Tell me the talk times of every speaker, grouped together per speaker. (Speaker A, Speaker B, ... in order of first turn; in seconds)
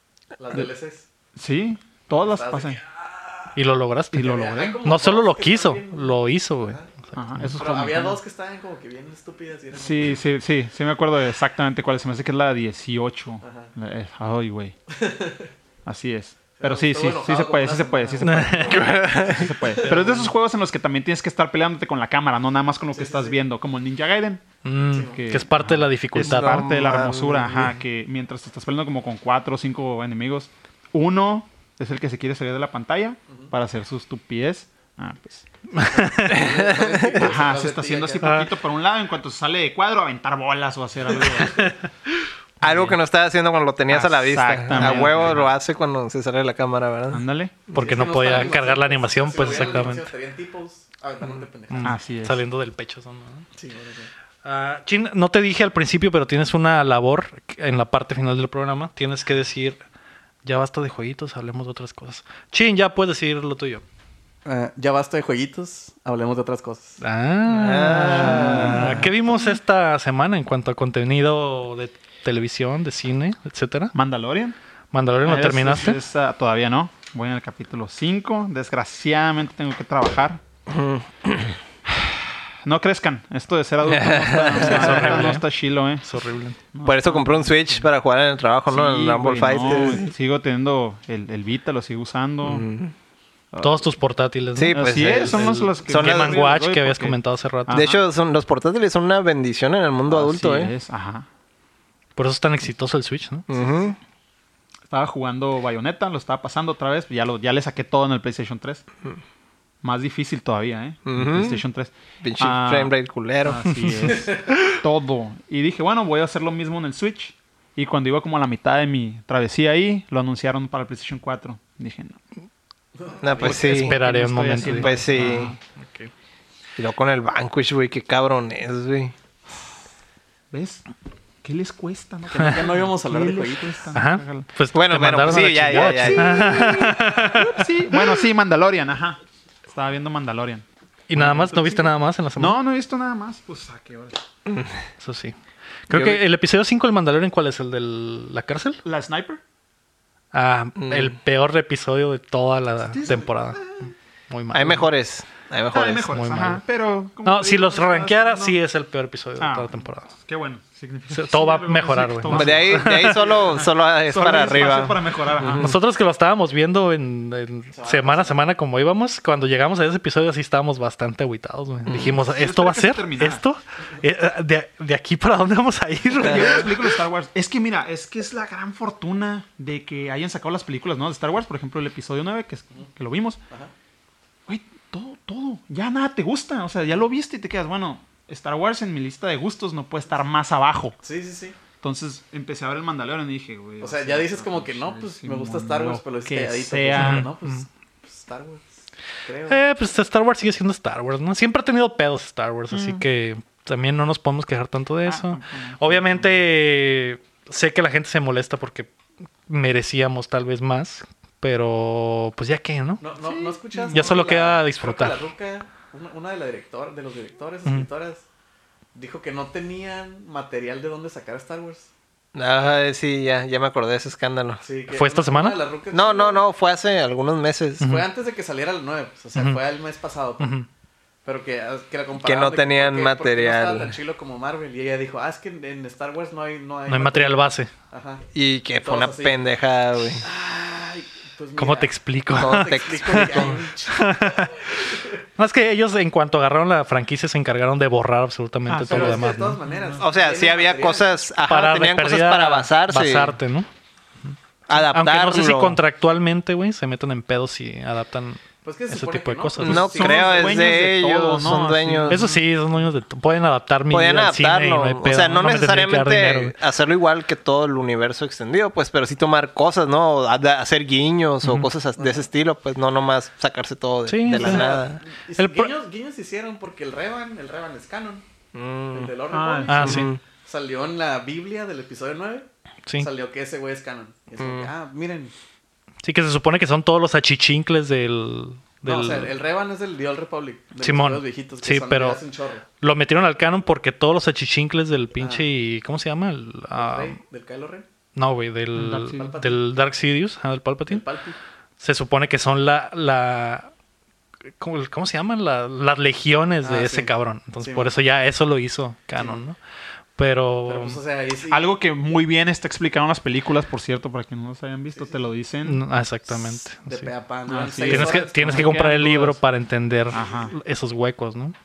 Speaker A: 0.4-1.1, 2.2-3.5, 4.2-6.9, 7.5-10.2, 13.4-13.7, 14.9-15.5, 16.6-20.3, 22.9-23.4, 24.9-25.2, 35.8-38.3, 41.3-41.7, 47.7-52.0, 53.5-54.1, 64.5-67.0, 114.1-114.4, 123.0-123.6, 132.3-133.9, 167.7-168.4, 191.0-191.6, 193.8-199.6, 213.0-218.2, 218.9-221.9, 224.6-226.4, 227.8-230.5, 231.2-238.2, 238.8-239.4, 240.2-245.1, 248.9-251.2, 258.6-260.8, 272.0-272.3, 274.3-278.2, 278.9-282.5, 283.0-285.3, 288.9-292.6, 295.2-295.5, 296.8-297.9, 299.1-299.6, 300.9-301.4, 306.6-307.9, 309.2-309.4, 310.7-311.7, 316.3-318.8, 320.1-320.5
Speaker B: 1.4-2.8, 4.1-4.8, 7.1-8.2, 9.7-14.8, 15.8-24.4, 25.0-35.5, 37.2-41.8, 42.6-43.0, 43.9-45.5, 47.1-47.6, 51.8-52.4, 68.0-69.1, 74.0-74.6, 75.2-80.4, 81.9-86.1, 86.7-87.9, 88.7-92.7, 93.5-93.8, 94.7-97.2, 97.7-98.0, 100.1-101.3, 104.9-108.8, 109.8-122.2, 123.4-125.6, 130.5-130.9, 131.4-134.5, 135.3-144.2, 148.8-149.4, 152.9-153.8, 155.7-158.6, 159.4-165.7, 171.9-173.4, 176.2-183.4, 184.5-191.0, 191.8-197.3, 202.7-203.0, 205.1-206.4, 213.2-214.3, 248.7-250.0, 259.6-262.4, 279.3-280.0, 298.7-299.4, 311.5-315.8, 317.5-319.4, 320.1-320.5
Speaker C: 3.5-7.6, 18.2-18.8, 24.6-26.7, 35.8-36.4, 38.2-38.5, 47.7-50.1, 51.7-53.5, 54.4-59.8, 60.5-63.8, 67.0-74.0, 74.9-76.0, 84.5-85.5, 86.0-86.6, 93.6-97.8, 102.2-103.5, 113.9-114.5, 123.5-126.1, 133.9-137.7, 141.1-142.6, 145.0-145.3, 145.9-148.8, 150.3-153.7, 154.3-154.9, 156.1-156.6, 157.2-160.1, 161.1-163.4, 165.4-176.9, 196.9-197.6, 199.5-208.9, 209.5-213.0, 213.9-215.2, 224.9-225.6, 227.8-228.1, 229.3-229.6, 230.4-230.7, 236.9-237.7, 241.6-249.6, 251.5-253.7, 254.3-259.8, 262.1-266.5, 271.4-271.7, 274.1-274.9, 275.4-275.7, 279.7-280.1, 286.0-289.3, 290.8-292.2, 292.8-297.2, 298.1-301.0, 301.8-303.7, 304.6-309.6, 310.2-311.0, 315.6-317.1, 317.9-321.6
Speaker D: 18.7-19.5, 26.1-27.8, 36.3-37.3, 42.6-47.2, 67.5-69.1, 80.7-81.6, 83.8-85.3, 86.8-90.1, 92.4-92.9, 94.6-96.5, 97.7-100.7, 103.5-104.0, 111.1-111.6, 112.2-113.7, 123.2-124.0, 124.7-125.5, 126.8-129.1, 134.7-136.9, 144.5-144.8, 145.9-146.2, 150.8-151.1, 154.5-156.1, 162.3-165.8, 171.9-172.2, 222.3-224.6, 225.9-227.9, 232.2-234.0, 238.3-240.2, 242.3-243.6, 250.0-253.4, 254.7-255.8, 259.6-262.2, 263.9-275.0, 278.5-279.1, 279.8-280.2, 284.4-284.7